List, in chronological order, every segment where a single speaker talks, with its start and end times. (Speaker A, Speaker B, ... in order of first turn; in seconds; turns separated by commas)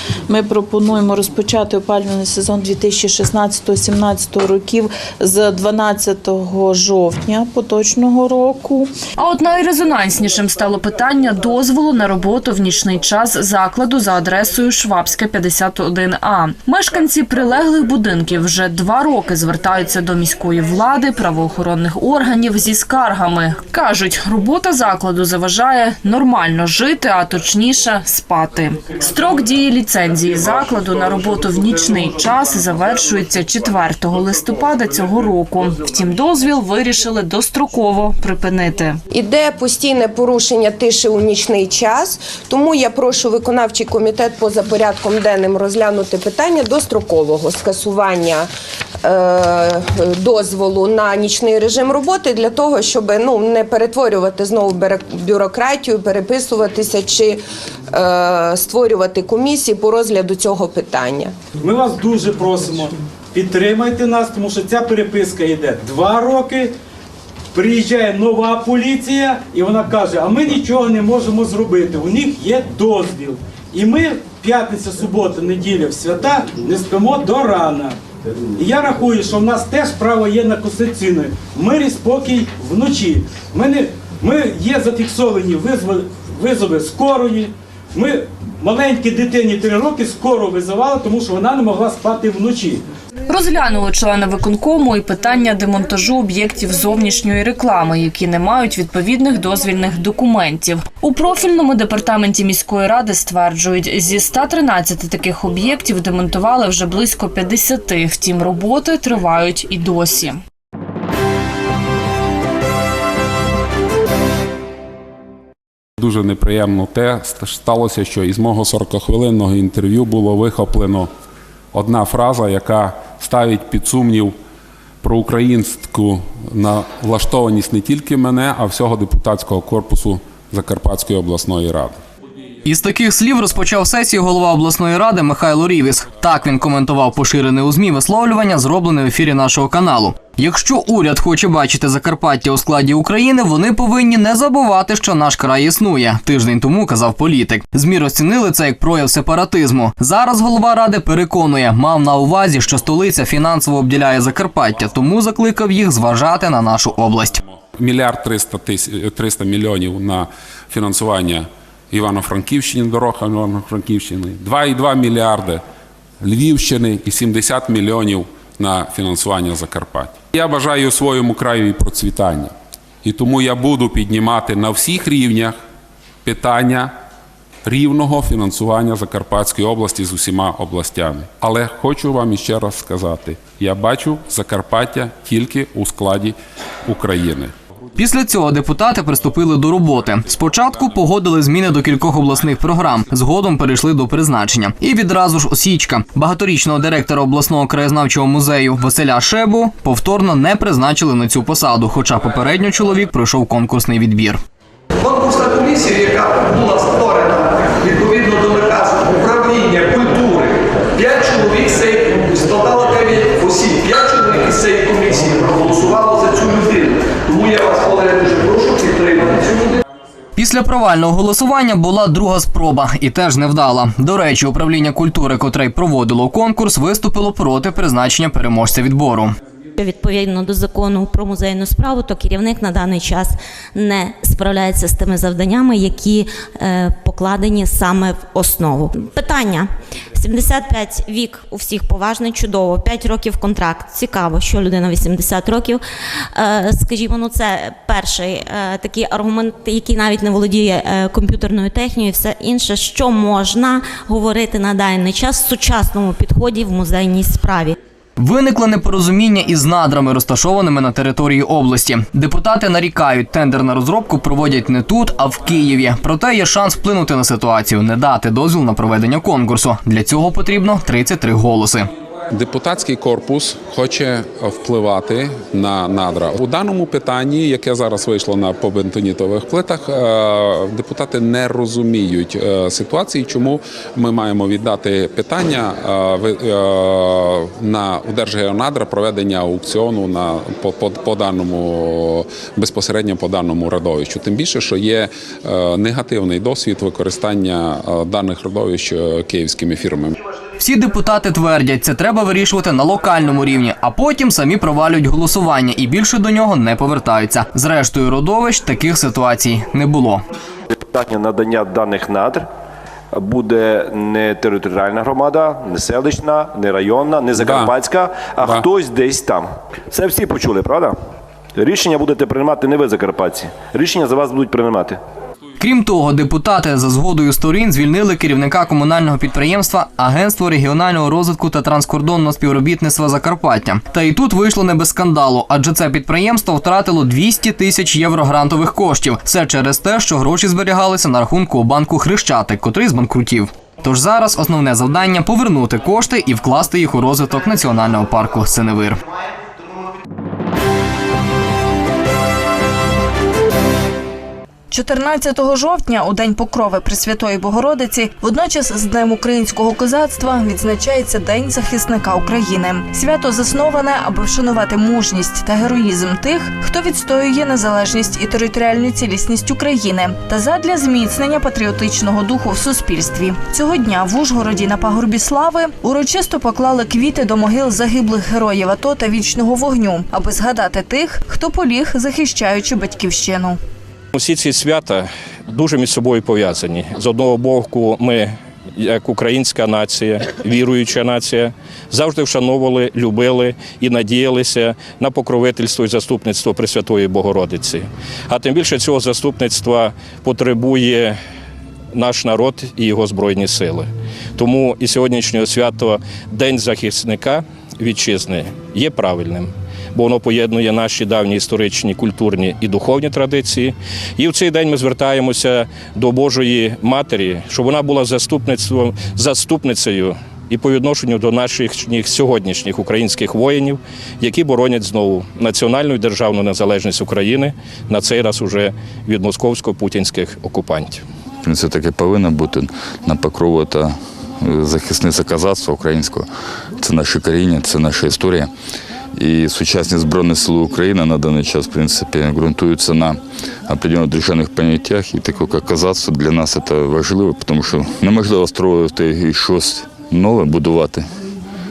Speaker A: 0.3-8.8, Speaker B: 9.2-39.0, Speaker C: 39.1-48.5, Speaker C: 49.0-61.3, Speaker D: 61.6-66.7, Speaker D: 67.5-77.9, Speaker D: 78.6-92.8, Speaker B: 93.3-110.4, Speaker E: 116.0-121.1, Speaker E: 121.7-124.3, Speaker E: 125.0-132.0, Speaker F: 132.7-157.4, Speaker E: 157.8-165.6, Speaker E: 166.2-172.5, Speaker E: 173.0-175.6, Speaker E: 176.2-176.9, Speaker E: 177.6-187.5, Speaker F: 188.0-201.7, Speaker G: 188.0-190.0, Speaker G: 191.2-193.6, Speaker G: 194.2-204.4, Speaker F: 202.2-204.4, Speaker H: 205.2-219.7, Speaker F: 220.4-229.4, Speaker G: 229.8-245.8, Speaker G: 246.3-257.8, Speaker F: 258.2-271.9, Speaker E: 272.3-300.1, Speaker F: 300.6-310.2, Speaker I: 310.9-312.5, Speaker I: 313.1-320.9, Speaker E: 317.4-317.8, Speaker E: 318.4-318.6, Speaker I: 321.6-325.0, Speaker F: 325.6-349.0, Speaker G: 338.3-339.5, Speaker G: 344.0-344.4, Speaker J: 354.8-383.6, Speaker K: 384.1-401.1, Speaker K: 401.9-431.0, Speaker L: 431.4-436.3, Speaker L: 436.8-438.5, Speaker L: 439.1-451.1